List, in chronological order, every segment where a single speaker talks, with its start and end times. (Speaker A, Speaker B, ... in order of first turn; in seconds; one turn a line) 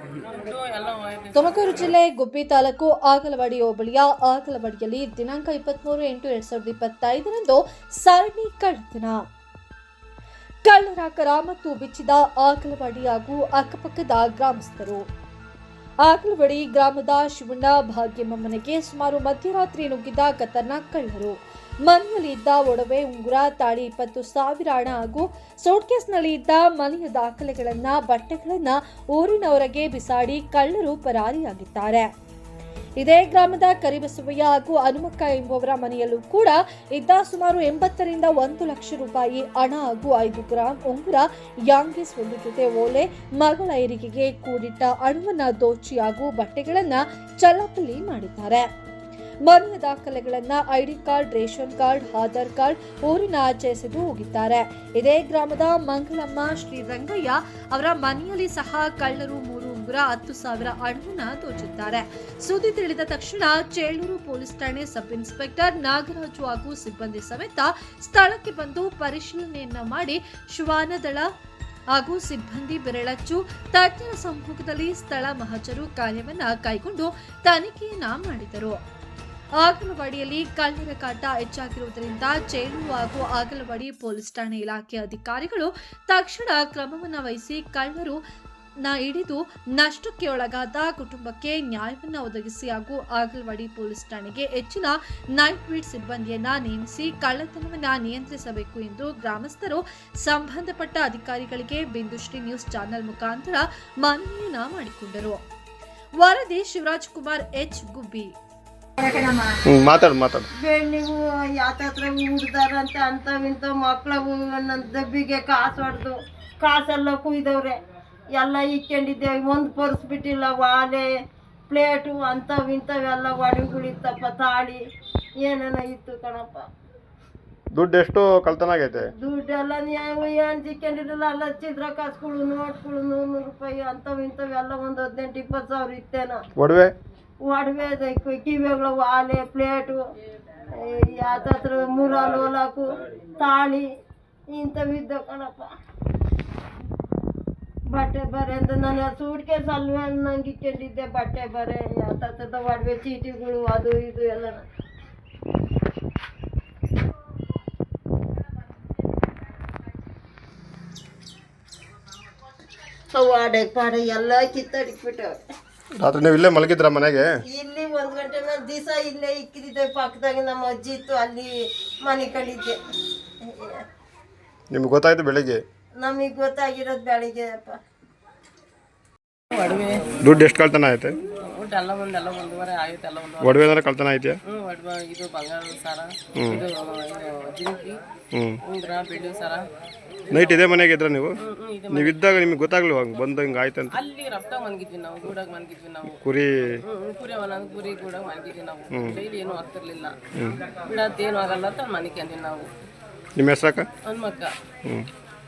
Speaker A: 0.2-1.7
Speaker B: 1.3-9.2
Speaker B: 10.7-15.0
Speaker B: 16.0-32.1
Speaker B: 33.0-48.6
Speaker B: 49.5-71.3
Speaker B: 71.9-78.8
Speaker B: 79.6-88.2
Speaker B: 88.8-105.4
Speaker B: 106.2-108.3
Speaker C: 109.0-109.5
Speaker D: 109.7-110.5
Speaker C: 110.6-117.8
Speaker C: 118.3-121.1
Speaker C: 121.7-124.8
Speaker C: 125.4-126.7
Speaker D: 127.7-129.1
Speaker C: 129.2-136.4
Speaker D: 136.6-136.9
Speaker C: 137.4-140.0
Speaker C: 140.7-143.9
Speaker C: 144.5-145.7
Speaker C: 147.9-154.6
Speaker C: 163.1-165.4
Speaker D: 166.0-167.3
Speaker C: 167.4-172.8
Speaker C: 173.4-173.8
Speaker D: 174.7-175.6
Speaker C: 176.0-177.8
Speaker A: 179.5-180.0
Speaker D: 180.2-181.2
Speaker A: 181.4-183.7
Speaker D: 183.4-184.4
Speaker A: 184.4-188.0
Speaker D: 186.3-186.6
Speaker D: 188.3-188.6
Speaker A: 188.7-189.6
Speaker A: 190.3-190.6
Speaker D: 190.3-191.3
Speaker A: 191.4-192.5
Speaker D: 191.9-194.0
Speaker A: 193.9-196.2
Speaker D: 196.1-196.5
Speaker A: 196.8-200.1
Speaker D: 198.9-199.2
Speaker A: 200.8-202.7
Speaker D: 203.4-203.9
Speaker A: 204.1-204.5